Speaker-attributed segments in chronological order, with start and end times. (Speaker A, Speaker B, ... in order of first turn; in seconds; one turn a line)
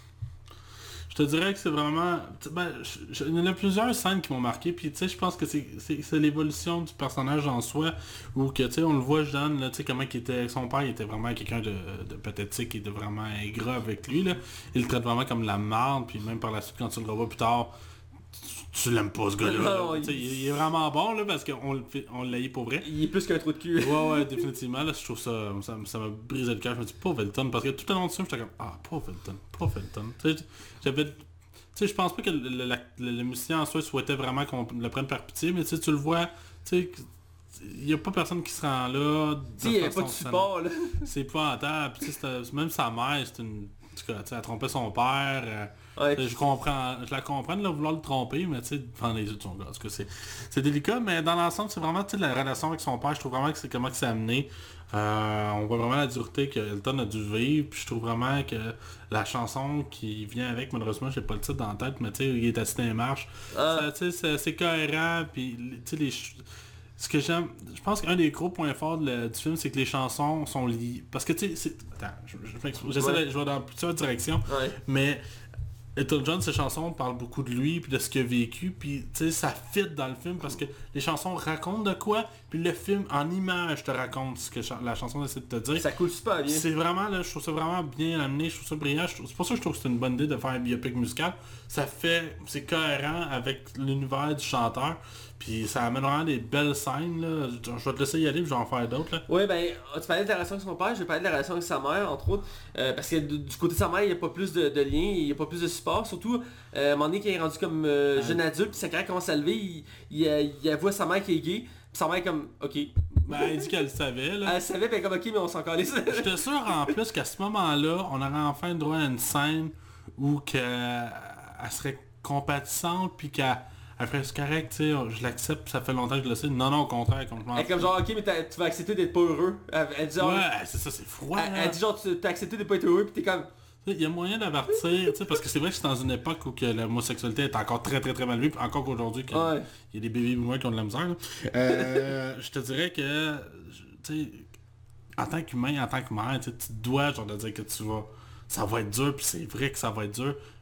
Speaker A: 1.1-17.7
Speaker A: 18.3-22.9
Speaker B: 19.4-20.4
Speaker B: 22.8-24.2
Speaker A: 23.8-40.5
Speaker B: 39.6-41.1
Speaker A: 41.0-66.4
Speaker B: 46.0-46.4
Speaker B: 63.5-63.9
Speaker A: 67.0-75.2
Speaker B: 74.5-74.8
Speaker A: 76.0-85.8
Speaker B: 85.8-86.6
Speaker A: 86.5-99.2
Speaker B: 99.3-113.7
Speaker A: 108.2-108.4
Speaker A: 113.2-114.6
Speaker B: 114.4-116.9
Speaker A: 116.1-127.9
Speaker B: 127.5-130.4
Speaker A: 130.2-131.8
Speaker B: 131.3-133.5
Speaker A: 133.8-144.5
Speaker B: 139.3-139.7
Speaker B: 141.7-142.1
Speaker A: 145.2-150.4